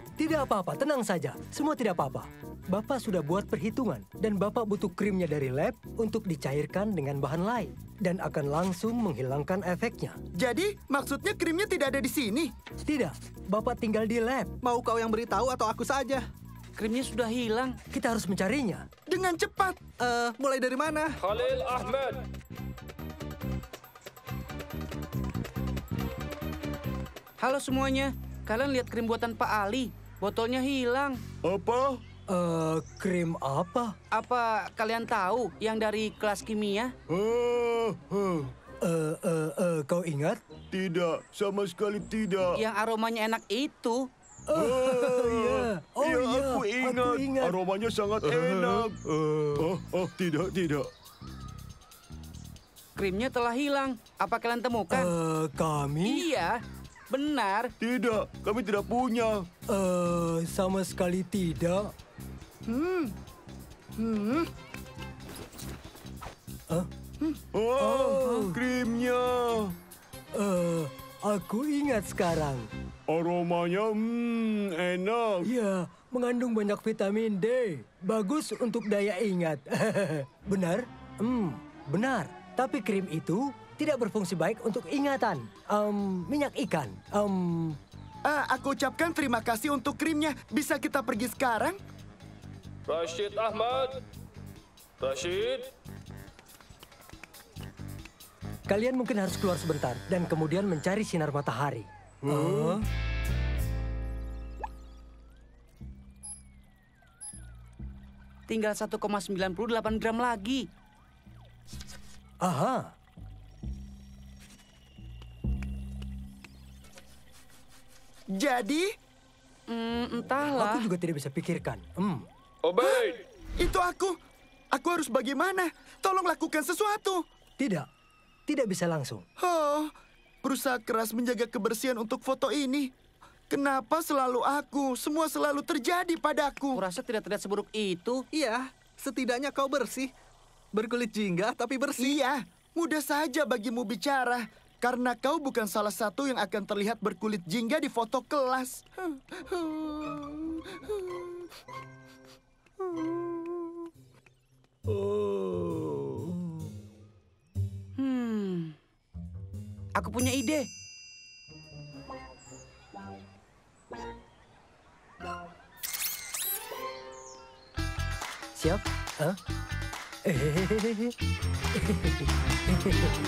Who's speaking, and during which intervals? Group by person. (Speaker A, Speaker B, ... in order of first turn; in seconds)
Speaker A: 0.2-10.2, 12.9-14.5, 17.9-18.9, 32.3-33.9, 38.8-40.4, 44.5-47.5, 48.2-49.6, 54.9-56.3, 59.7-61.9, 67.8-68.6, 70.3-72.7, 75.4-87.8, 98.7-102.8, 112.4-112.9, 120.5-122.2, 127.6-127.9, 128.5-129.3, 168.5-169.4, 170.2-171.1, 171.7-173.1
Speaker B: 10.3-12.5, 19.1-19.8, 62.7-63.1, 64.0-64.5, 88.2-91.8, 118.3-118.9, 123.6-124.2, 124.7-127.2, 129.4-129.9, 130.4-132.9, 133.5-136.8, 142.0-151.3
Speaker C: 14.6-16.2, 20.0-21.1, 138.3-140.1, 140.7-142.2
Speaker D: 16.8-17.8, 27.4-31.2, 34.1-36.9, 42.5-44.0, 53.0-55.1, 56.0-56.6, 57.1-57.7, 108.5-110.6, 119.7-120.8, 136.7-138.2, 158.0-158.8, 159.9-160.7
Speaker E: 21.2-22.2, 92.9-94.0, 95.0-95.7, 122.6-123.2
Speaker F: 31.4-32.0, 37.1-38.4, 40.7-42.6, 44.5-49.0, 49.5-50.9, 57.8-59.4, 67.5-69.7, 73.1-75.5, 102.3-102.8